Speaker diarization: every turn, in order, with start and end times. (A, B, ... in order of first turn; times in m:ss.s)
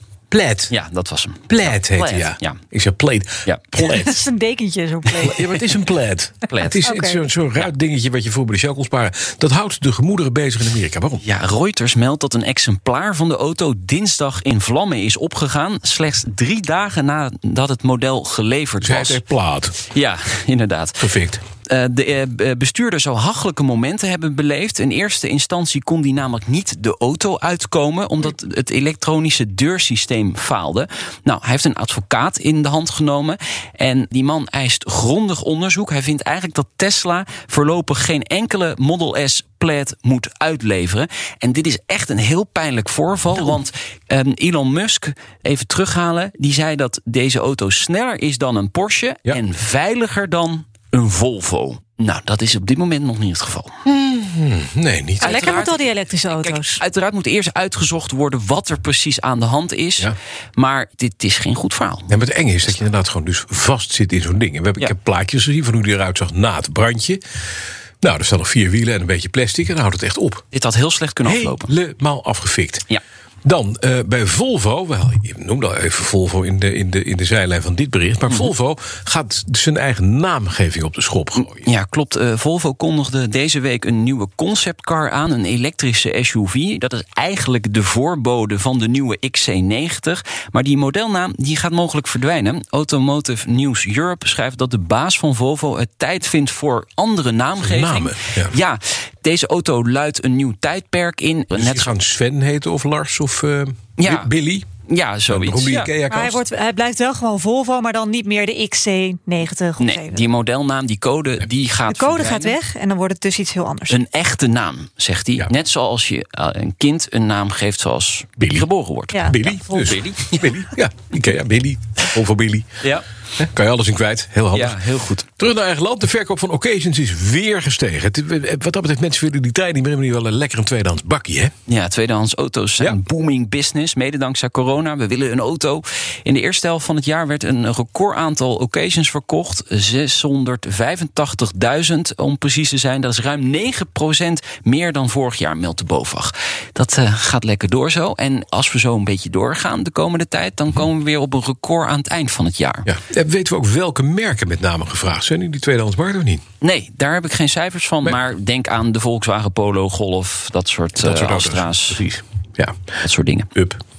0:00.3-0:00.7 A
0:00.7-0:02.6 B
0:01.5-0:04.2 A
0:03.4-0:03.8 B
0:03.9-0:05.7 C
0:05.2-0:11.2 A
0:05.2-0:05.6 B
0:06.5-0:06.8 B
0:06.8-0:07.2 C
0:11.2-0:19.2 B
0:18.8-0:19.8 A
0:19.9-0:21.1 B
0:21.0-0:21.4 A
0:21.6-0:53.7 B
0:53.8-0:55.7 A
0:55.2-1:02.1 B
0:55.2-0:56.8 C
1:02.1-1:07.2 A
1:08.0-1:10.4 A
1:10.5-1:11.7 B
1:11.2-1:12.8 A
1:13.4-1:21.7 A
1:21.4-1:41.9 B
1:37.6-1:38.5 A
1:41.5-1:44.7 A
1:44.0-1:44.3 B
1:44.8-1:45.9 B
1:45.3-1:46.4 A
1:46.1-1:50.2 C
1:49.8-1:52.6 B
1:51.9-1:54.0 C
1:53.9-2:00.5 B
1:58.4-1:58.7 A
1:59.1-2:00.0 C
1:59.2-2:02.7 A
2:03.4-2:04.8 A
2:04.5-2:05.2 B
2:05.4-2:11.5 A
2:11.7-2:32.9 B
2:32.8-2:36.4 A
2:36.6-2:42.0 B
2:41.0-2:42.8 A
2:43.0-2:43.5 B